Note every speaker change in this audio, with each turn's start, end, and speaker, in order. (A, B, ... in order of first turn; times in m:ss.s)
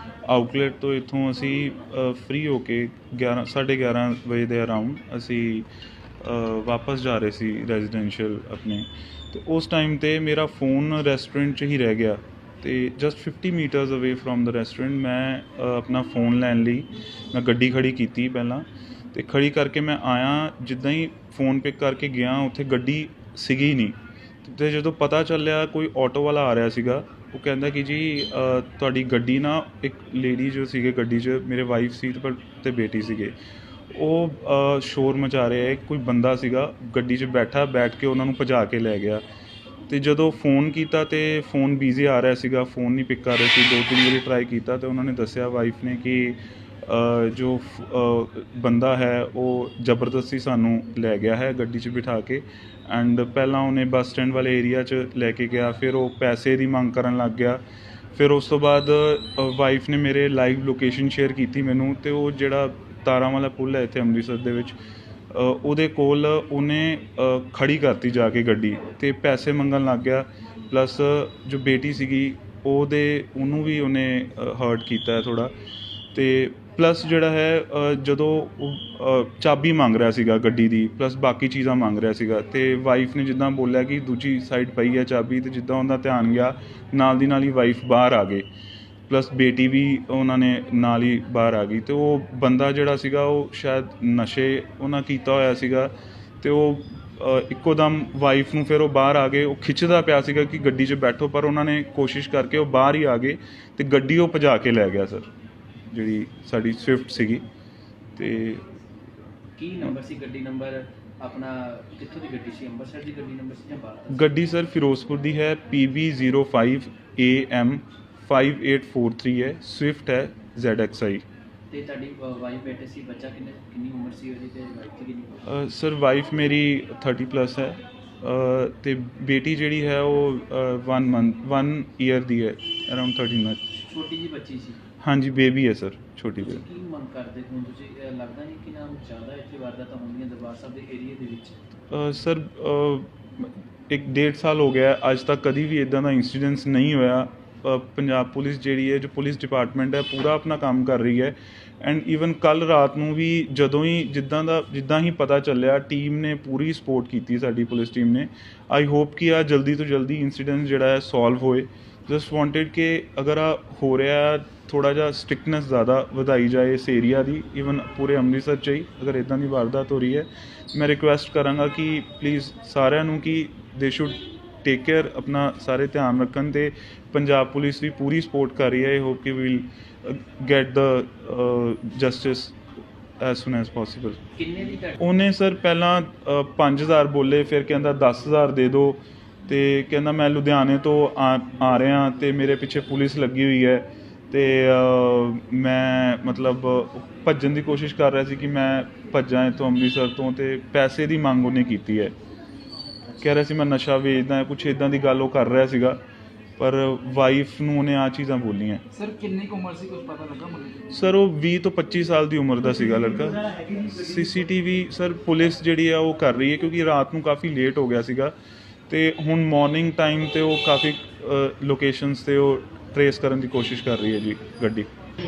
0:00.3-0:05.7 A
0:06.2-0:33.4 A
0:33.9-0:39.2 A
0:39.9-0:57.6 A
0:58.2-1:04.8 A
1:05.3-1:15.5 A
1:16.1-1:28.4 A
1:29.1-1:45.3 A
1:45.9-1:47.4 A
1:48.2-1:48.6 A
1:49.6-1:54.3 B
1:54.1-2:01.2 A
2:01.7-2:05.5 B
2:05.4-2:13.6 A
2:13.8-2:14.8 B
2:15.0-2:16.6 A
2:16.4-2:21.6 B
2:21.9-3:02.6 A
3:03.2-3:04.2 A
3:04.4-3:05.0 B
3:05.0-3:22.1 A
3:23.2-3:26.0 A
3:26.6-3:28.8 A
3:28.9-3:30.9 C
3:30.9-3:38.3 A
3:38.9-3:44.9 A